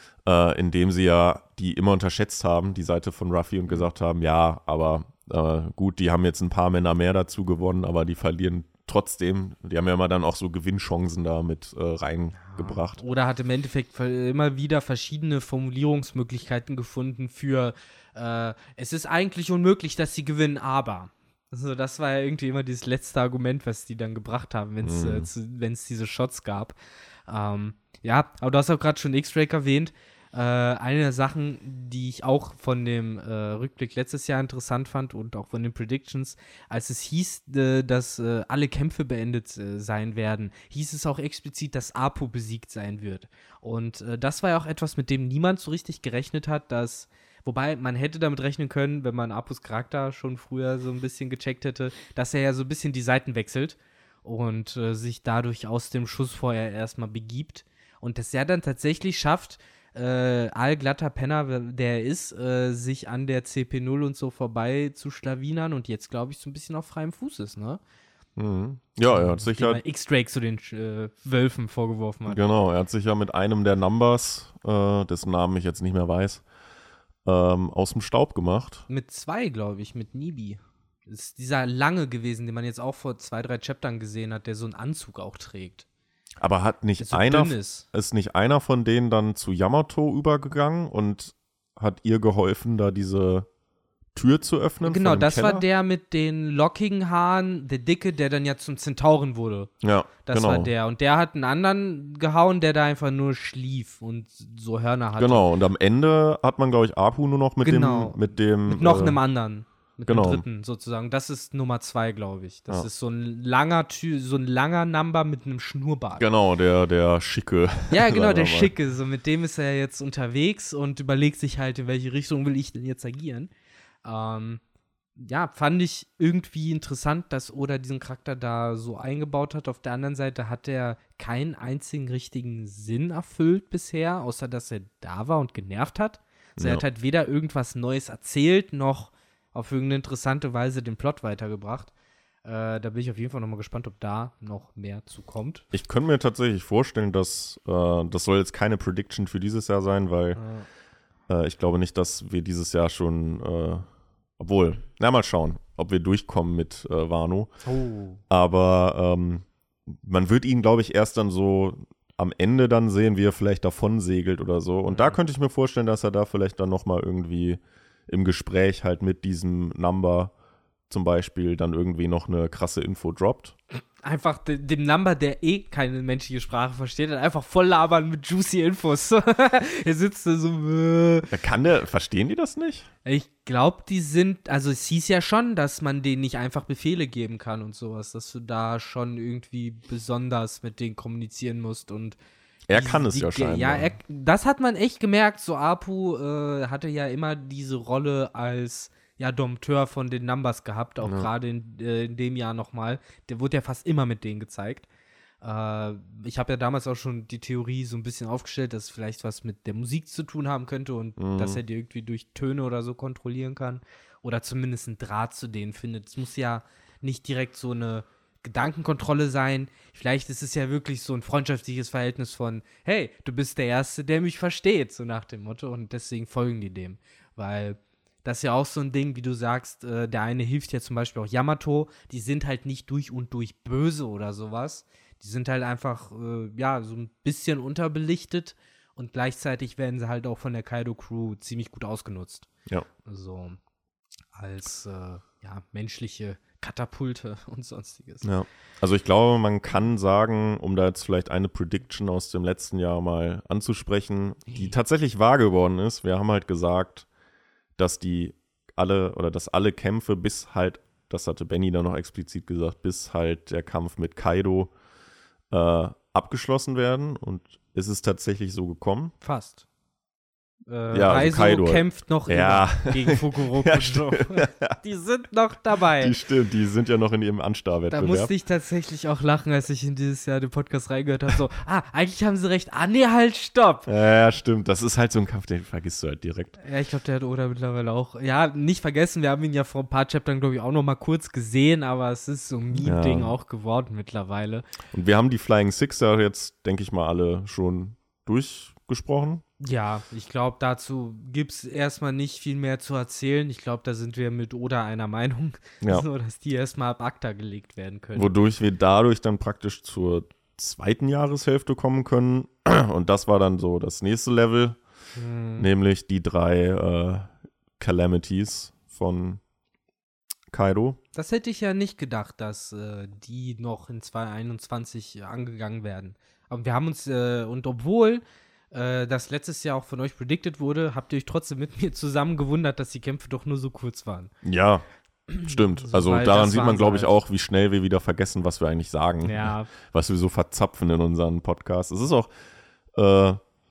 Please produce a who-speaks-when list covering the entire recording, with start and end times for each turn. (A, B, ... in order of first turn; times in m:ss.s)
0:00.2-0:13.0 A
0:12.4-0:26.8 B
0:24.8-0:25.3 A
0:27.3-1:07.8 B
1:08.4-1:09.8 A
1:09.1-1:12.4 B
1:12.3-1:16.4 A
1:17.2-1:18.8 A
1:18.9-1:25.9 B
1:26.4-1:33.5 A
1:27.0-1:27.8 B
1:34.1-1:35.6 A
1:34.8-1:39.7 B
1:39.8-1:40.7 A
1:40.3-1:45.5 B
1:45.2-1:49.2 A
1:47.6-1:56.2 B
1:50.1-1:50.4 A
1:56.2-1:58.7 A
1:57.9-2:03.5 B
2:04.0-2:04.6 B
2:05.2-2:21.9 B
2:16.6-2:16.8 A
2:22.4-2:25.7 B
2:25.7-2:30.4 A
2:30.4-2:30.7 B
2:31.3-2:33.9 A
2:34.4-2:37.5 A
2:37.6-2:38.2 B
2:38.3-2:50.3 A
2:44.9-2:45.2 B
2:50.9-2:53.6 A
2:54.0-3:01.3 B
3:01.3-3:02.9 A
3:03.0-3:12.2 B
3:12.7-3:13.9 A
3:12.7-3:24.9 B
3:21.0-3:21.3 A
3:25.4-4:02.5 B
3:31.2-3:31.6 A
4:03.0-4:03.6 B
4:04.3-4:08.3 B
4:08.2-4:17.1 A
4:17.8-4:24.7 A
4:25.5-4:29.1 A
4:29.2-4:29.6 B
4:30.7-4:36.2 B
4:30.9-4:34.8 A
4:36.0-4:38.3 A
4:37.9-4:43.9 B
4:43.9-4:46.6 A
4:46.6-4:54.7 B
4:52.8-4:53.3 A
4:54.9-4:59.4 A
4:59.6-5:08.4 B
5:08.2-5:14.8 A
5:15.2-5:15.7 B
5:15.6-5:19.4 A
5:20.5-5:21.0 A
5:21.2-5:34.3 B
5:34.4-5:34.8 A
5:35.3-5:37.2 B
5:35.4-5:42.3 A
5:39.2-5:39.7 B
5:42.9-5:43.4 A